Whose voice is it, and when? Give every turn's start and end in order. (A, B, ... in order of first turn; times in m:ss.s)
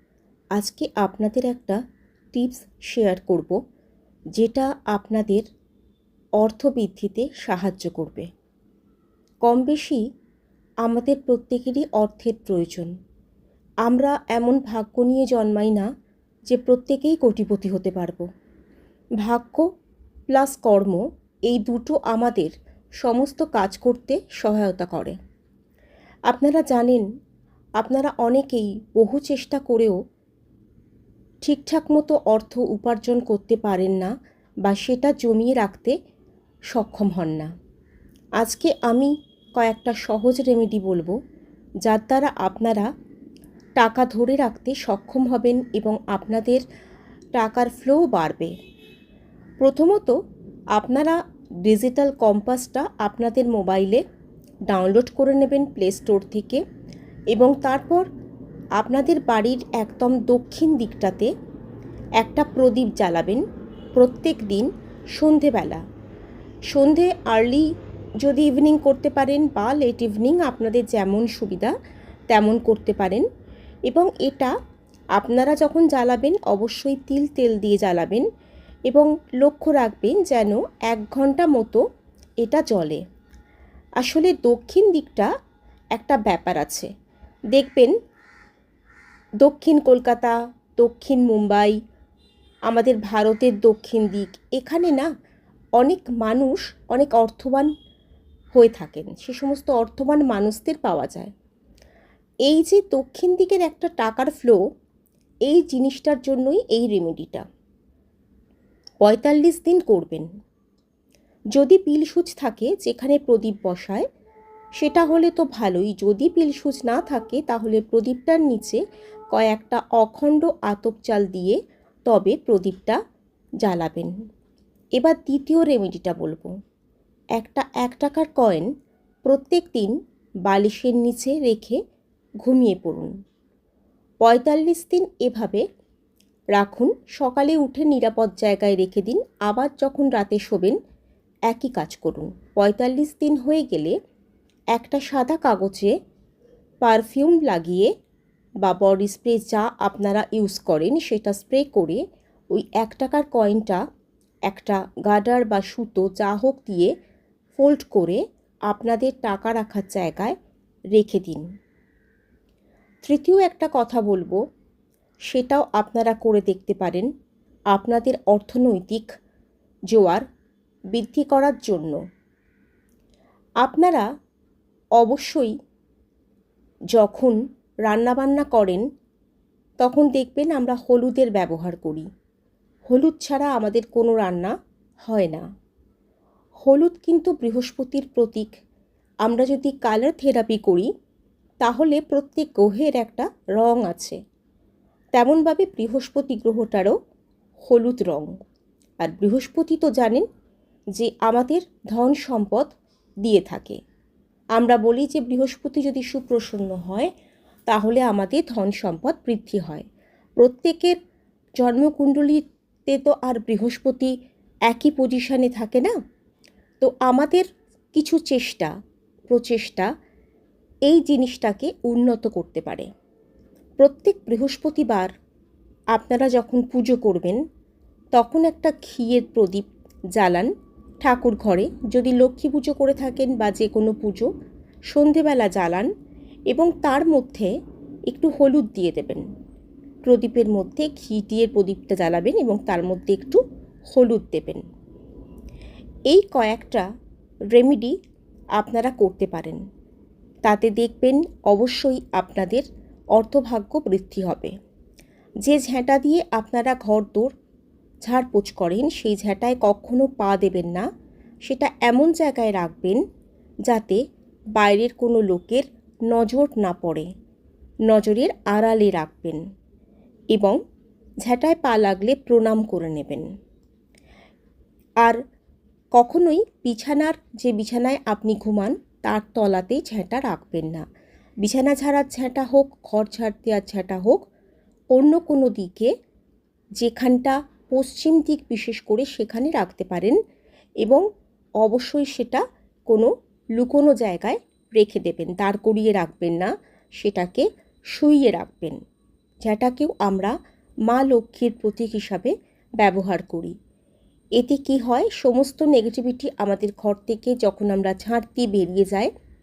0:00.5-0:01.8 A
0:02.3-0:03.6 A
0:04.4-0:05.4 A
0:06.4-0:08.3 A
0:09.4-0:10.0 A
0:10.8-0:12.9 A
0:13.8-0:15.9 A
0:16.5-0:18.2 A
0:19.2-0:19.7 A
0:20.3-0:25.2 A
0:26.3-0:27.0 A
0:27.8-0:30.0 A
0:31.4-0:34.1 A
0:34.6-0:36.0 A
0:36.7-0:37.5 A
0:38.4-0:41.2 A
0:41.9-0:42.9 A
0:43.8-0:46.6 A
0:47.4-0:48.5 A
0:49.6-0:50.2 A
0:50.8-0:54.0 A
0:54.7-0:56.6 A
0:57.3-0:58.1 A
0:58.8-1:01.3 A
1:02.2-1:03.4 A
1:04.0-1:05.8 A
1:06.7-1:07.6 A
1:08.2-1:11.7 A
1:12.3-1:13.2 A
1:13.9-1:14.5 A
1:15.2-1:18.2 A
1:18.9-1:21.8 A
1:22.4-1:23.0 A
1:24.0-1:25.3 A
1:25.9-1:26.9 A
1:27.5-1:28.0 A
1:29.4-1:31.7 A
1:32.7-1:35.1 A
1:35.8-1:37.7 A
1:38.5-1:41.3 A
1:42.4-1:44.6 A
1:45.5-1:47.4 A
1:49.0-1:50.3 A
1:51.5-1:54.0 A
1:54.8-1:58.8 A
1:59.3-2:03.0 A
2:03.6-2:04.1 A
2:05.0-2:06.5 A
2:07.4-2:08.7 A
2:09.2-2:11.8 A
2:12.4-2:13.1 A
2:14.2-2:15.6 A
2:16.5-2:20.8 A
2:21.5-2:24.0 A
2:24.7-2:26.0 A
2:26.8-2:27.9 A
2:28.6-2:33.8 A
2:34.5-2:36.9 A
2:37.5-2:40.4 A
2:40.9-2:41.4 A
2:43.0-2:44.4 A
2:45.3-2:47.1 A
2:47.7-2:49.1 A
2:49.9-2:50.2 A
2:50.9-2:52.0 A
2:53.6-2:54.0 A
2:55.0-2:55.5 A
2:56.9-2:58.8 A
2:59.8-3:02.1 A
3:02.9-3:04.5 A
3:05.0-3:05.4 A
3:06.6-3:08.5 A
3:09.2-3:10.9 A
3:11.6-3:14.2 A
3:15.1-3:16.9 A
3:17.7-3:18.3 A
3:19.0-3:20.3 A
3:21.0-3:22.7 A
3:23.2-3:23.8 A
3:24.6-3:27.1 A
3:27.7-3:29.8 A
3:30.4-3:31.0 A
3:31.6-3:34.1 A
3:34.7-3:35.9 A
3:36.8-3:38.7 A
3:39.3-3:39.9 A
3:40.8-3:42.9 A
3:43.8-3:45.1 A
3:45.9-3:47.4 A
3:48.1-3:50.5 A
3:51.0-3:54.3 A
3:54.9-3:55.9 A
3:56.5-3:57.5 A
3:58.1-3:59.2 A
4:00.0-4:03.4 A
4:03.9-4:04.6 A
4:06.1-4:06.8 A
4:07.5-4:08.0 A
4:08.6-4:09.6 A
4:10.4-4:14.5 A
4:15.4-4:17.3 A
4:18.0-4:20.9 A
4:21.4-4:23.0 A
4:23.7-4:24.0 A
4:24.6-4:27.1 A
4:27.9-4:29.4 A
4:31.2-4:33.3 A
4:36.0-4:40.8 A
4:41.4-4:44.3 A
4:44.9-4:45.9 A
4:46.8-4:50.2 A
4:51.6-4:58.8 A
4:59.4-5:00.3 A
5:00.9-5:03.5 A
5:04.4-5:09.1 A